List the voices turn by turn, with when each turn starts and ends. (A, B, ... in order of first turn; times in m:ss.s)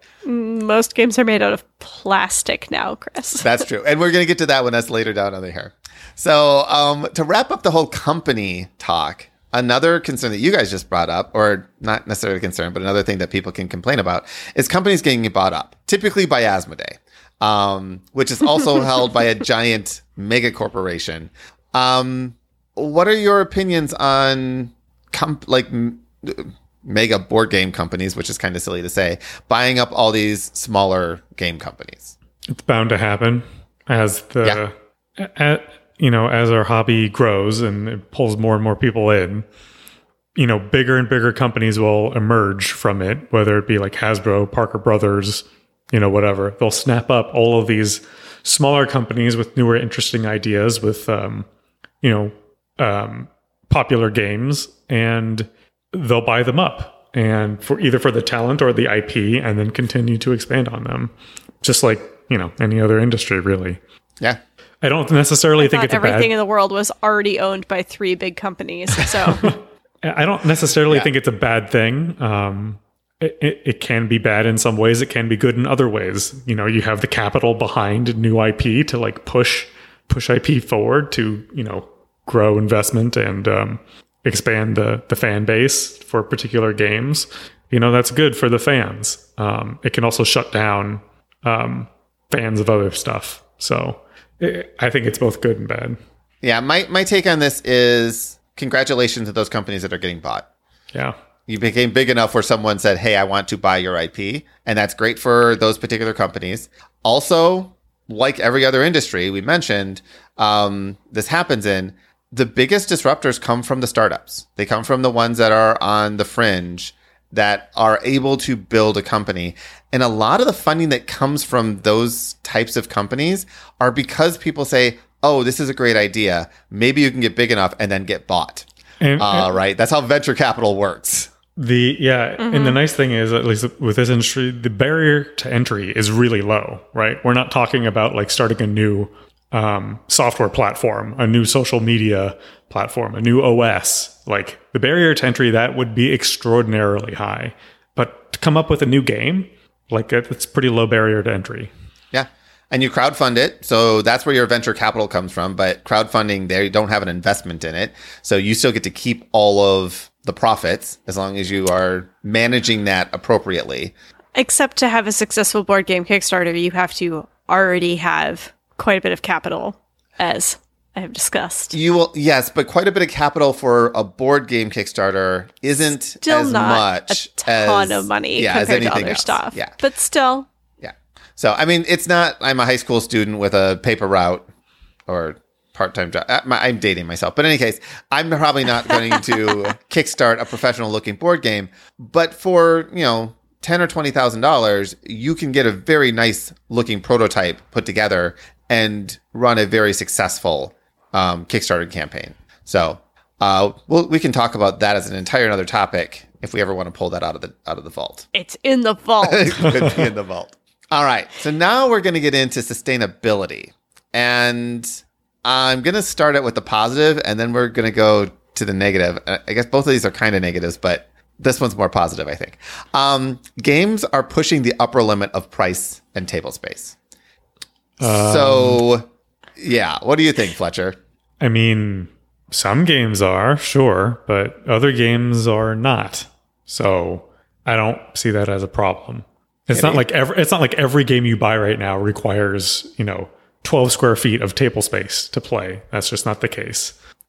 0:00.2-0:03.6 A
0:03.4-0:32.1 B
0:32.5-0:39.4 C
0:40.4-0:51.5 C
0:52.0-1:01.1 C
1:01.6-1:03.8 C
1:04.8-1:06.3 C
1:05.6-1:09.5 A
1:09.3-1:36.0 C
1:36.4-1:40.4 B
1:41.5-2:11.3 B
2:09.0-2:09.5 C
2:11.6-2:31.7 C
2:12.4-2:12.8 A
2:32.1-2:43.9 B
2:44.3-2:51.8 A
2:51.7-2:59.7 B
2:56.2-3:00.5 A
3:00.8-3:04.5 B
3:05.1-3:28.3 B
3:28.3-3:29.8 A
3:29.2-3:47.0 B
3:48.0-3:48.8 C
3:48.0-3:51.0 B
3:51.4-4:06.9 C
3:59.7-4:00.0 B